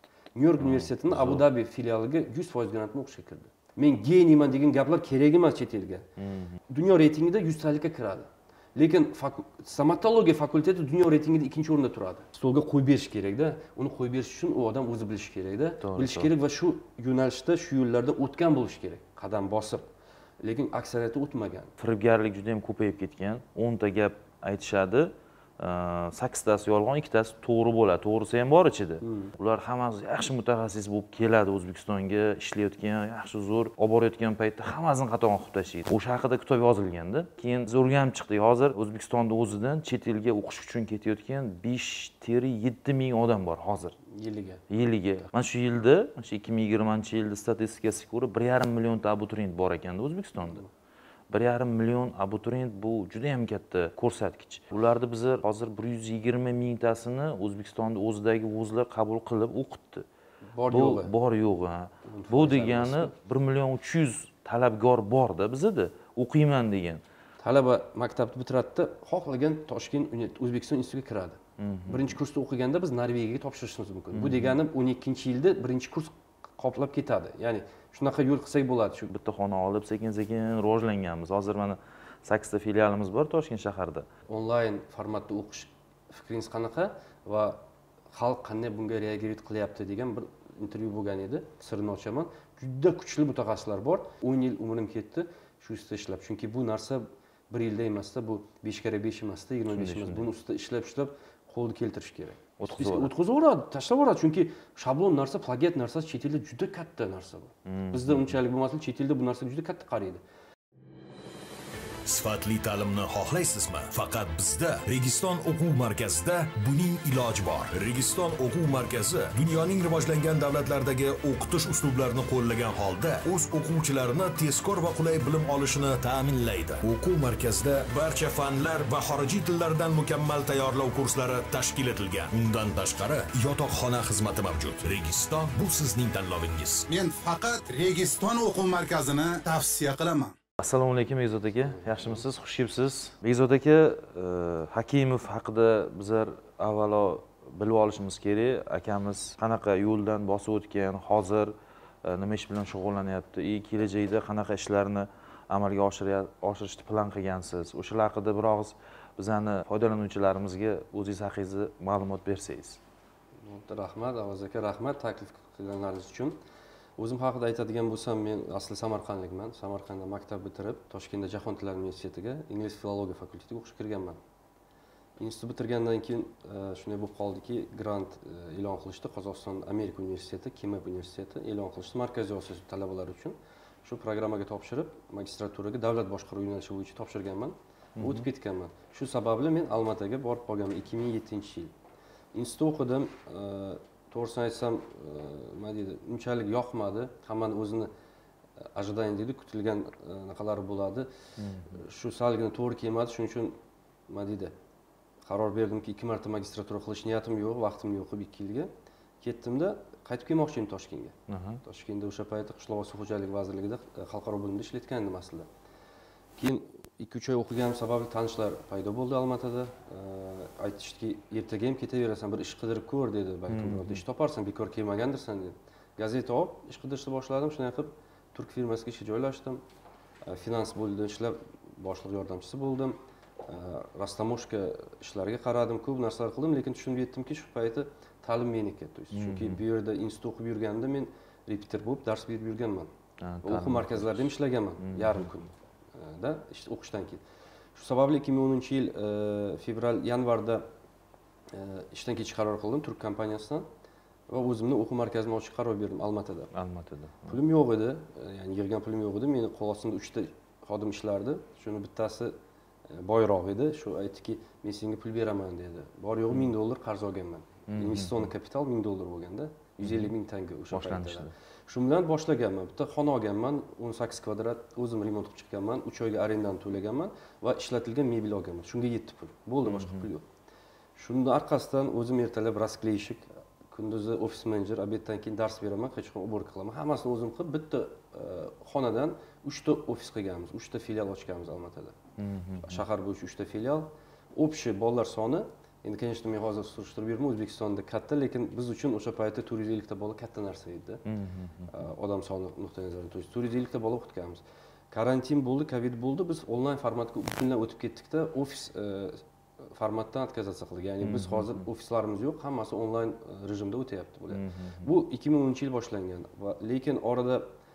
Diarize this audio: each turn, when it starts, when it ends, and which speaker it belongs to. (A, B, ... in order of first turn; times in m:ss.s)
0:00.4-0:06.1 A
0:00.6-0:01.5 B
0:06.2-0:06.6 B
0:06.7-0:19.9 A
0:15.8-0:16.3 B
0:20.4-0:21.7 A
0:21.8-0:44.0 B
0:29.0-0:29.4 A
0:44.1-0:44.6 A
0:44.7-0:50.6 B
0:51.3-1:00.1 B
1:00.5-1:01.1 A
1:00.7-1:07.0 B
1:02.1-1:03.1 A
1:07.4-1:19.1 A
1:11.6-1:12.1 B
1:14.1-1:14.6 B
1:19.1-1:24.1 B
1:24.3-1:27.6 A
1:28.1-1:50.2 A
1:39.7-1:40.3 B
1:42.6-1:43.1 B
1:47.7-1:48.3 B
1:52.1-2:16.9 C
2:16.9-2:20.3 D
2:20.6-2:31.5 B
2:21.7-2:22.2 A
2:32.0-2:42.8 B
2:43.4-2:46.4 A
2:47.0-2:54.2 A
2:55.2-3:11.7 A
3:08.0-3:08.3 B
3:12.3-3:17.9 A
3:18.7-3:21.1 A
3:21.4-3:21.8 B
3:21.7-3:23.6 A
3:24.1-3:24.5 A
3:25.2-3:28.7 A
3:29.2-3:35.5 A
3:31.3-3:31.6 B
3:36.4-3:49.6 A
3:43.5-3:44.0 B
3:50.3-4:02.9 A
3:59.1-3:59.6 B
4:03.2-4:05.3 B
4:03.4-4:07.2 A
4:07.8-4:10.6 A
4:11.5-4:13.7 A
4:14.3-4:16.5 A
4:16.5-4:17.4 B
4:17.3-4:22.4 A
4:22.9-4:40.3 A
4:27.7-4:28.3 B
4:29.8-4:30.1 B
4:30.7-4:31.3 B
4:39.6-4:40.1 B
4:41.0-4:52.0 A
4:52.2-4:52.8 B
4:52.6-5:01.0 A
5:01.0-5:01.7 B
5:01.7-5:17.5 A
5:11.0-5:11.6 B
5:14.3-5:14.9 B